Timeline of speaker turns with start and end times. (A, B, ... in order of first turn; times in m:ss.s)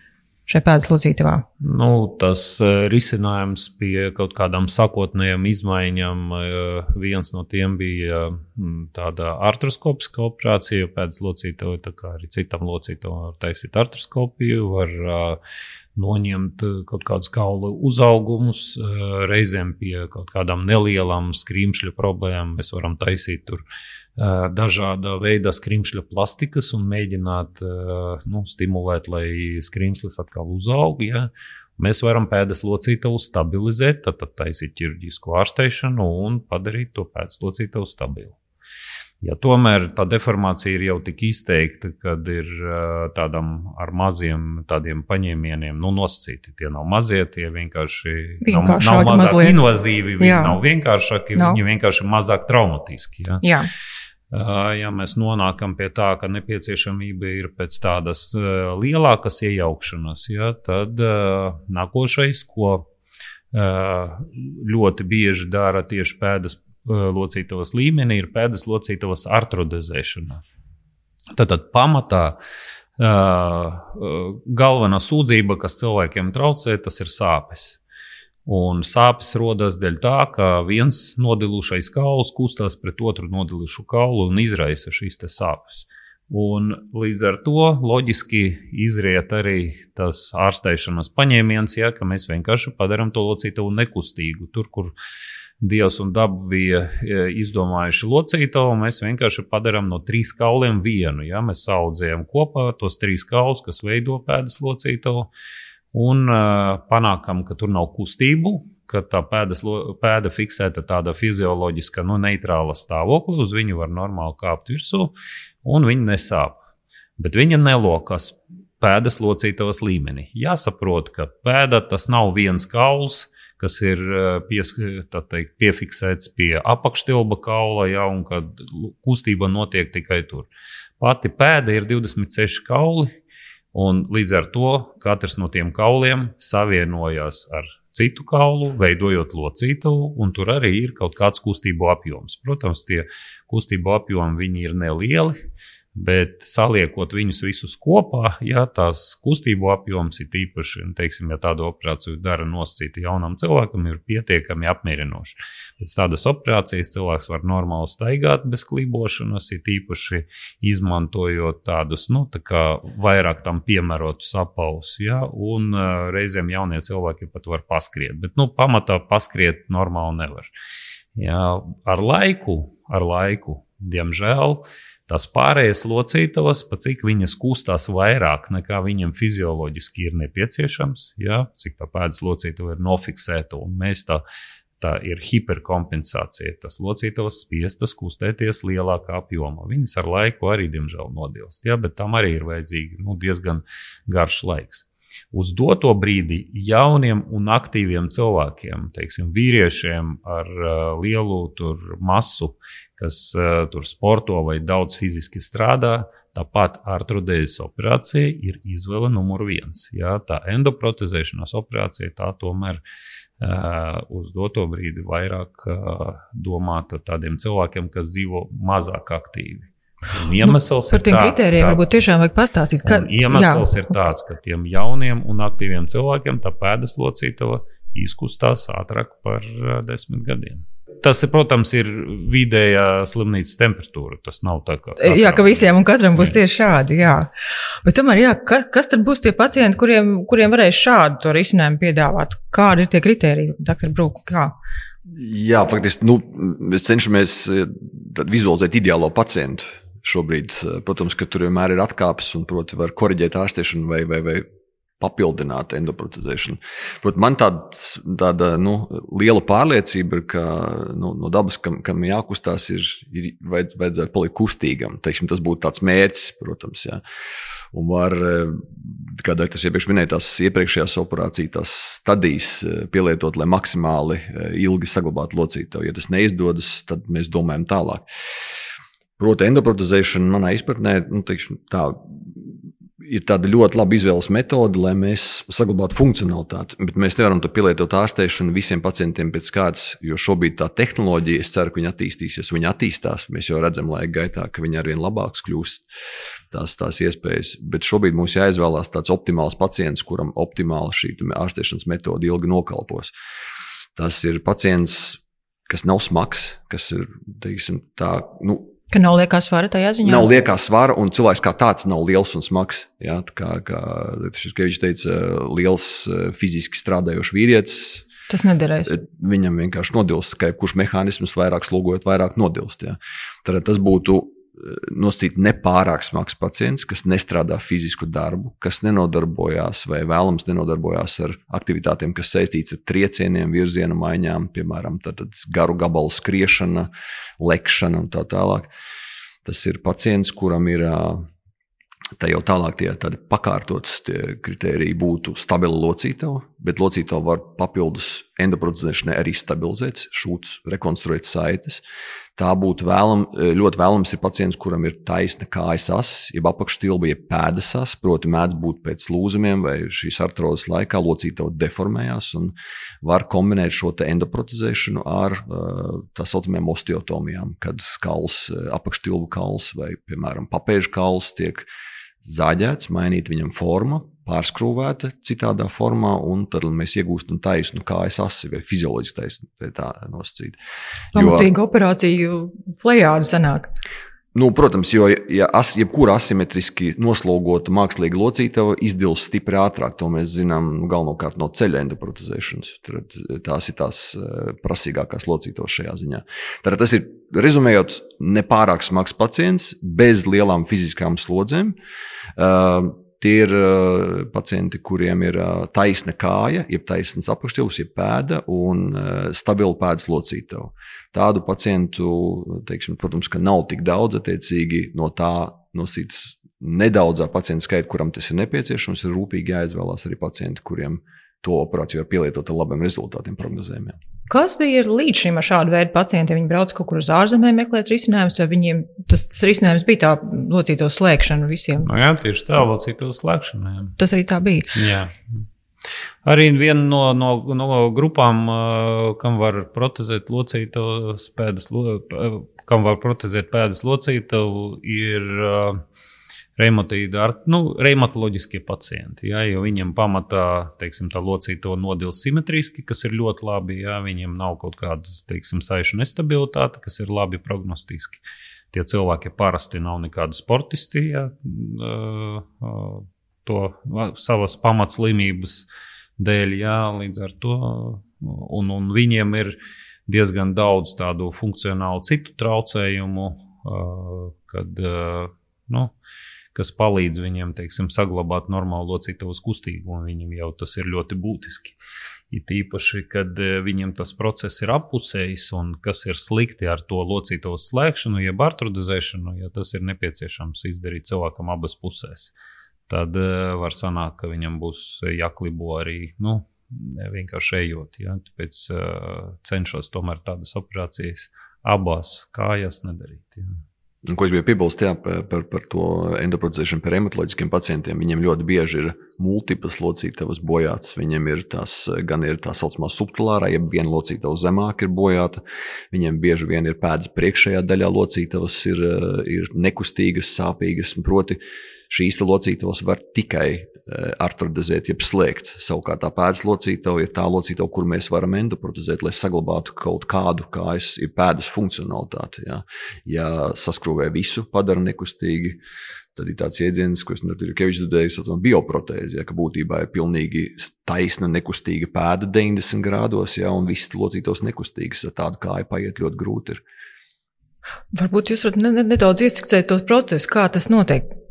0:00.5-0:01.4 A
0:01.6-0:15.4 B
0:16.0-0:23.6 B
0:24.2-0:38.4 B
0:39.2-0:53.4 B
0:48.4-0:49.6 A
0:50.2-0:50.6 A
0:53.4-0:53.7 A
0:54.3-1:02.8 B
1:03.5-1:10.4 B
1:11.3-1:12.4 B
1:13.0-1:17.8 B
1:18.4-1:34.9 B
1:35.6-1:45.3 B
1:45.9-1:56.6 B
1:57.2-2:10.5 B
2:11.0-2:13.1 B
2:13.7-2:25.4 B
2:25.9-2:50.5 B
2:51.1-3:04.2 B
3:04.8-3:32.8 B
3:33.4-3:41.8 B
3:40.4-3:43.7 A
3:42.8-3:56.3 B
3:55.0-3:57.3 A
3:57.8-4:04.5 A
4:05.1-4:14.4 C
4:15.0-4:27.0 C
4:27.7-4:38.0 C
4:39.2-4:55.9 C
4:56.5-5:03.1 C
5:04.0-5:08.7 C
5:08.9-5:10.3 A
5:10.0-5:18.0 C
5:18.3-5:19.0 A
5:18.9-5:38.7 C
5:39.4-5:41.3 C
5:42.2-5:51.8 C
5:52.4-6:11.7 C
6:12.2-6:20.6 C
6:21.1-6:21.5 C
6:21.1-6:23.7 A
6:24.3-6:41.8 C
6:42.4-7:04.0 C
7:04.3-7:11.9 A
7:11.8-7:14.0 B
7:14.0-7:14.7 A
7:14.7-7:15.4 B
7:16.2-7:25.8 B
7:26.6-7:45.7 B
7:46.2-7:55.9 B
7:56.5-8:01.8 B
8:02.3-8:12.3 B
8:12.9-8:23.6 B
8:24.0-8:41.4 C
8:41.9-8:55.6 C
8:56.1-9:06.6 C
9:07.9-9:11.1 A